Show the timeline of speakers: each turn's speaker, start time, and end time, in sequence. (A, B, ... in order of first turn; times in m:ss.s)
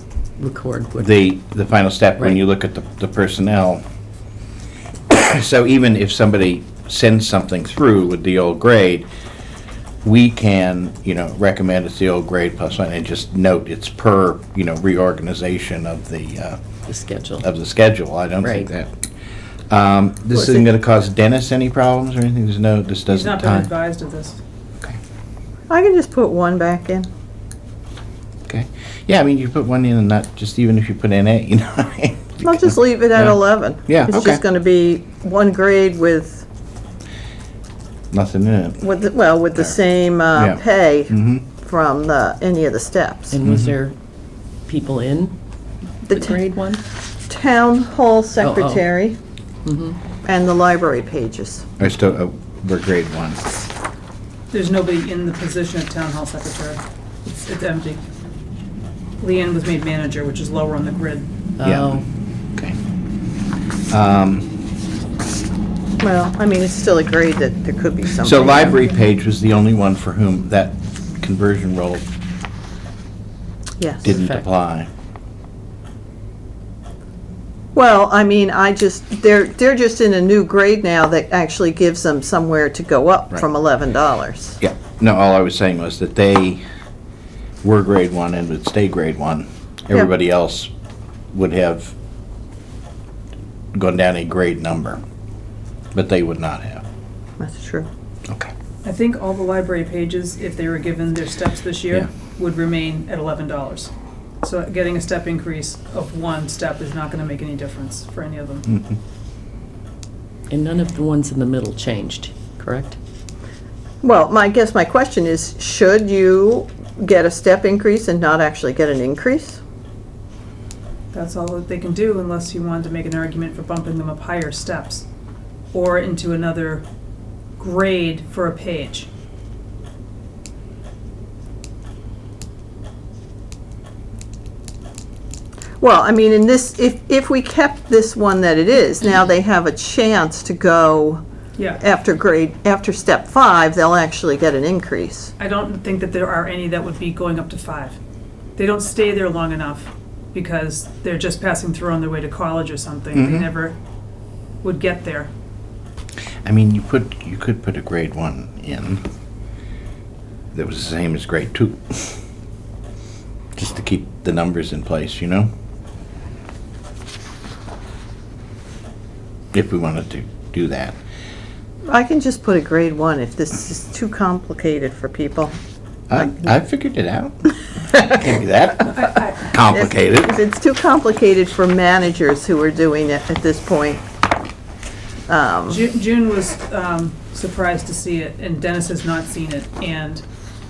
0:00.4-0:01.1 A
0:01.0-0:03.8 B
0:05.1-0:09.1 B
0:10.0-0:16.6 B
0:16.9-0:17.4 A
0:17.4-0:19.0 B
0:18.4-0:18.7 A
0:19.7-0:23.7 B
0:20.3-0:20.6 C
0:23.1-0:24.4 D
0:25.7-0:27.1 C
0:28.5-0:34.4 B
0:32.4-0:36.4 C
0:38.1-0:38.8 B
0:38.8-0:43.4 C
0:40.4-0:41.4 B
0:43.3-0:43.9 A
0:43.4-0:43.7 B
0:44.6-0:45.3 A
0:46.1-0:46.4 C
0:46.1-0:46.8 A
0:47.3-0:49.2 C
0:48.4-0:48.9 A
0:49.6-0:50.0 A
0:50.2-0:51.7 C
0:51.8-0:53.4 B
0:54.5-0:58.0 D
0:59.2-1:01.2 D
1:01.6-1:02.0 A
1:01.6-1:02.0 B
1:03.9-1:04.5 B
1:06.0-1:08.8 C
1:08.2-1:12.0 B
1:13.8-1:14.0 C
1:14.0-1:14.9 B
1:14.0-1:14.4 A
1:17.7-1:24.6 C
1:24.6-1:26.6 B
1:27.6-1:30.7 B
1:31.3-1:31.9 B
1:33.7-1:35.0 B
1:35.9-1:36.8 B
1:37.4-1:37.9 C
1:38.8-1:43.9 D
1:44.4-1:48.6 D
1:48.7-1:49.0 B
1:50.5-1:53.0 A
1:54.0-1:59.6 C
2:01.1-2:05.0 D
2:05.7-2:06.8 D
2:07.6-2:09.1 D
2:15.8-2:21.2 C
2:21.8-2:25.3 C
2:25.4-2:28.0 D
2:28.6-2:33.8 D
2:33.1-2:33.5 B
2:34.6-2:35.3 D
2:36.4-2:39.0 B
2:40.5-2:42.2 B
2:43.5-2:45.5 B
2:49.5-2:51.0 B
2:51.8-2:55.5 C
2:56.1-3:00.3 B
2:58.8-2:59.5 D
2:59.7-3:04.0 C
3:05.3-3:05.8 C
3:05.7-3:10.2 D